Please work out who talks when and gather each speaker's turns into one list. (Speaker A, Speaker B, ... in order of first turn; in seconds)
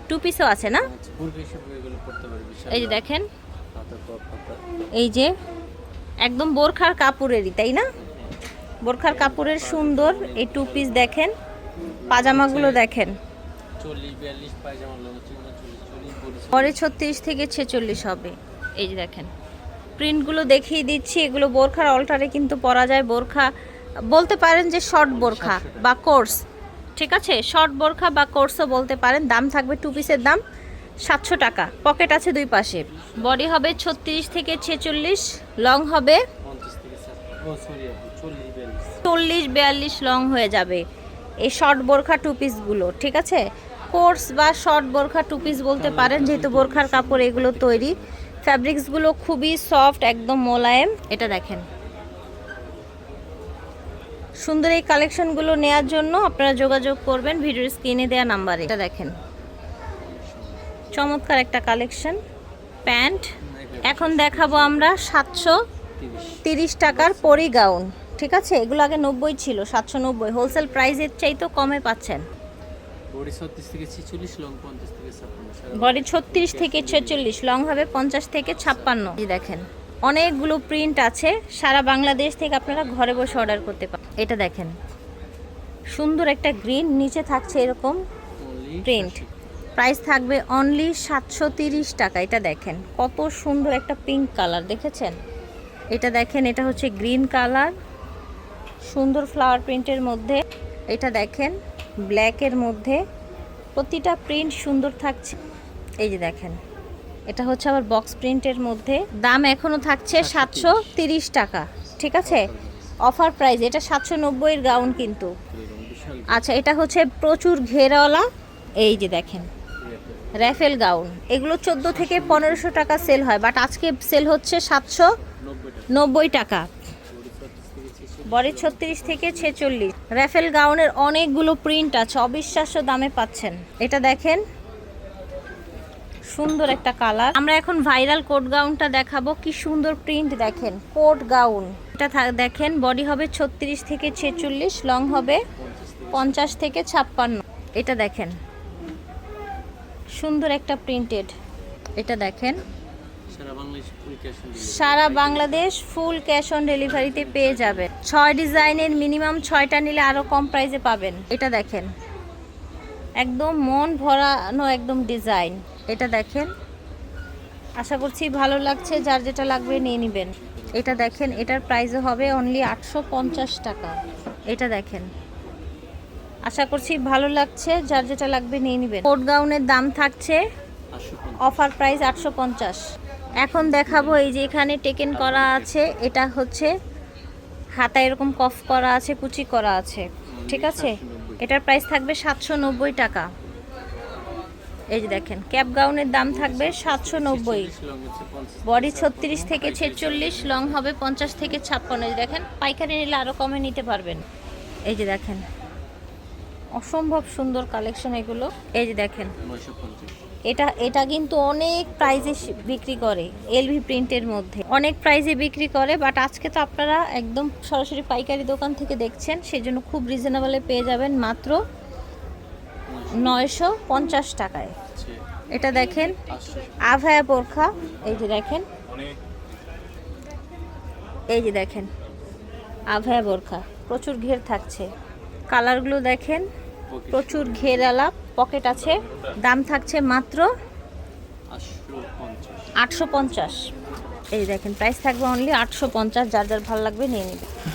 Speaker A: 0.1-0.8, 2.7-3.2, 5.0-5.3, 6.2-7.8, 8.8-11.3, 12.1-13.2, 16.5-19.3, 20.0-23.5, 24.1-26.4, 27.0-30.4, 31.0-36.2, 39.0-40.8, 41.4-43.4, 43.9-51.6, 54.4-59.1, 61.0-62.2, 62.9-63.3, 63.8-65.6, 66.4-72.2, 75.7-84.7, 85.9-88.0, 88.8-89.2, 89.8-95.2, 95.9-97.7, 98.9-101.5, 102.1-103.0, 103.8-105.4, 106.0-106.6, 107.3-112.5, 113.0-115.3, 116.3-118.3, 118.8-119.5, 120.3-125.1, 125.9-126.7, 128.3-134.4, 136.3-145.4, 146.1-148.3, 150.2-151.3, 152.0-152.6, 154.6-161.9, 163.2-166.5, 167.8-174.0, 174.5-175.1, 176.5-180.4, 181.4-182.8, 183.4-186.7, 187.8-193.3, 194.9-197.7, 198.6-204.2, 204.9-205.4, 206.8-209.3, 210.5-221.6, 223.1-224.8, 225.5-226.2, 226.8-228.7, 231.3-231.9, 232.9-234.9, 235.5-236.4, 237.1-240.4, 242.8-243.7, 244.3-247.5
Speaker B: 0.8-3.1, 3.7-4.6, 8.0-8.3, 9.0-11.1, 12.0-12.8, 13.8-16.8, 25.0-26.3, 32.6-34.5, 36.4-39.0, 45.7-48.1, 60.0-60.6, 63.5-65.1, 66.0-67.5, 73.1-77.3, 78.7-79.1, 88.4-89.3, 110.1-110.9, 112.2-113.0, 115.5-116.5, 119.8-120.7, 121.8-122.7, 125.2-125.9, 127.1-129.8, 145.5-146.6, 153.3-155.7, 156.8-157.9, 170.2-172.4, 180.9-181.7, 183.3-184.3, 185.1-185.8, 190.3-191.4, 196.2-200.8, 209.4-210.1, 211.9-213.4, 222.9-223.5, 224.9-225.2, 226.2-228.3, 236.9-238.0, 241.5-242.7